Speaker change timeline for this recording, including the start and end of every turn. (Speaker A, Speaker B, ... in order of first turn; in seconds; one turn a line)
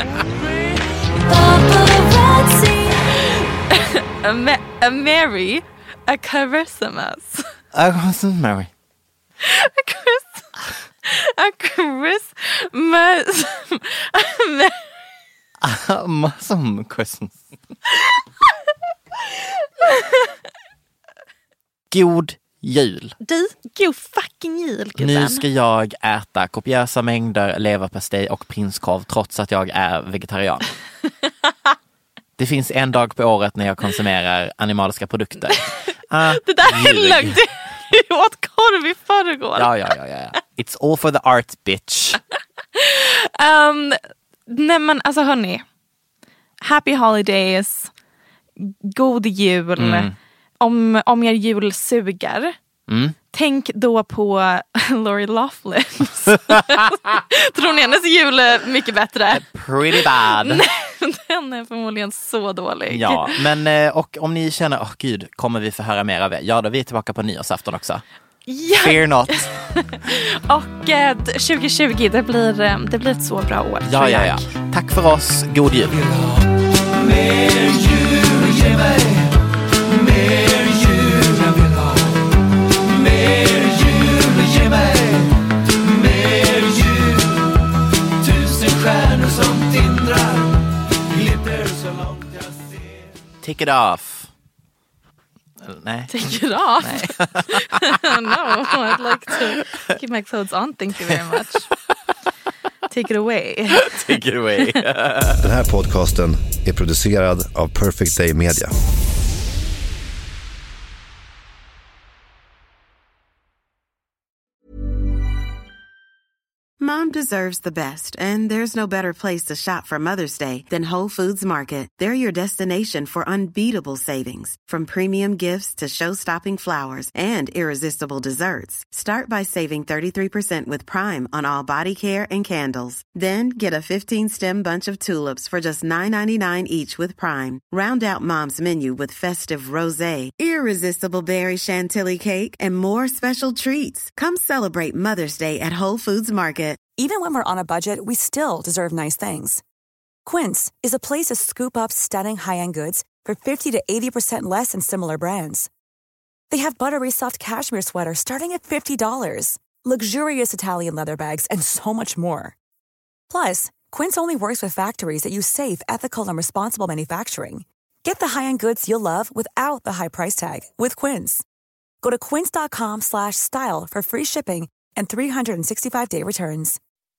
Speaker A: 1.1-7.5
Speaker B: 7.7-8.7
Speaker A: 9.4-10.5
Speaker A: 11.0-14.9
Speaker B: 15.6-17.4
Speaker A: 19.8-20.3
Speaker B: 21.9-23.1
Speaker A: 23.2-25.4
Speaker B: 25.0-30.7
Speaker B: 32.4-37.4
Speaker A: 36.2-39.7
Speaker B: 39.5-42.2
Speaker A: 42.7-45.6
Speaker A: 46.6-47.9
Speaker A: 48.6-52.5
Speaker B: 49.8-50.1
Speaker B: 52.9-53.1
Speaker A: 53.3-63.4
Speaker B: 59.3-60.6
Speaker B: 62.9-68.0
Speaker A: 68.5-74.5
Speaker B: 68.8-69.6
Speaker B: 73.8-76.3
Speaker B: 88.7-89.9
Speaker B: 93.4-94.3
Speaker B: 95.6-99.8
Speaker A: 96.1-101.7
Speaker B: 101.1-101.5
Speaker A: 102.9-104.0
Speaker B: 103.8-105.4
Speaker C: 105.4-108.7
Speaker D: 116.8-146.8
Speaker E: 147.0-149.6
Speaker E: 150.2-155.7
Speaker E: 156.5-162.5
Speaker E: 163.3-171.4
Speaker E: 172.0-176.8